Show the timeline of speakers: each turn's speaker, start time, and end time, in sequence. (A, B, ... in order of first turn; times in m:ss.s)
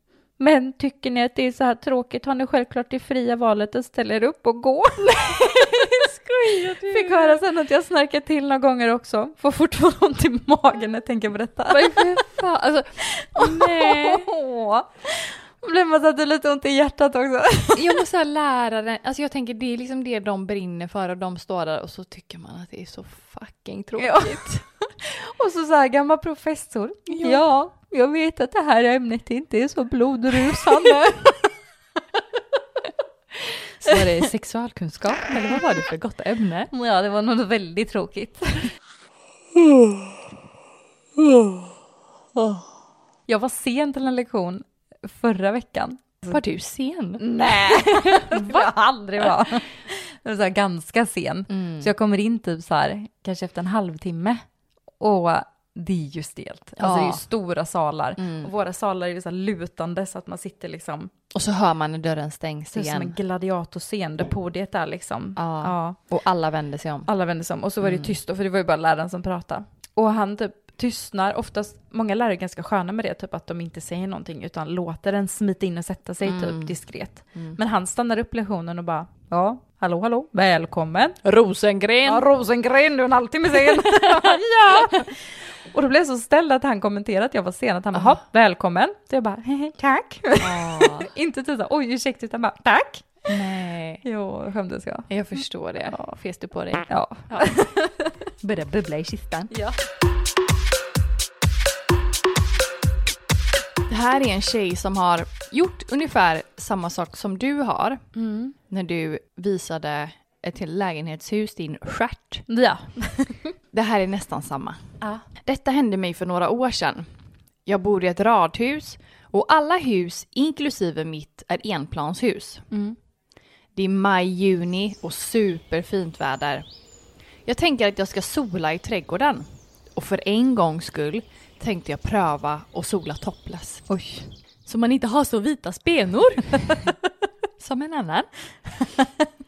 0:00.4-0:12.2 A
0:05.0-0:07.4 B
0:11.7-0:14.3 B
0:13.1-0:18.0 A
0:17.7-0:24.6 B
0:24.0-0:31.5 A
0:27.1-0:27.4 B
0:33.8-0:36.7 B
0:36.7-0:38.7 A
0:43.3-0:46.4 A
0:46.3-0:48.7 B
0:47.2-0:54.4 A
0:51.5-0:51.9 B
0:55.0-1:01.1 A
0:56.8-0:57.2 B
0:58.2-0:58.5 B
1:01.3-1:03.1 B
1:02.7-1:06.0 A
1:05.4-1:07.1 B
1:07.1-1:21.2 A
1:07.8-1:08.1 B
1:16.2-1:16.7 B
1:21.2-1:22.2 B
1:22.0-1:33.2 A
1:23.6-1:25.0 B
1:30.4-1:31.1 B
1:33.3-1:34.0 B
1:34.0-1:35.1 A
1:35.1-1:37.6 B
1:35.8-1:36.1 A
1:36.9-1:38.1 A
1:38.4-1:39.5 B
1:39.5-1:39.8 A
1:43.9-1:48.0 B
1:48.1-1:48.5 A
1:48.7-1:52.4 B
1:52.5-1:53.5 A
1:53.7-1:54.8 B
1:55.4-1:57.1 B
1:57.6-2:02.6 B
2:02.7-2:03.0 A
2:03.8-2:06.6 B
2:07.4-2:13.9 B
2:13.9-2:14.2 A
2:14.6-2:16.8 B
2:17.6-2:18.3 B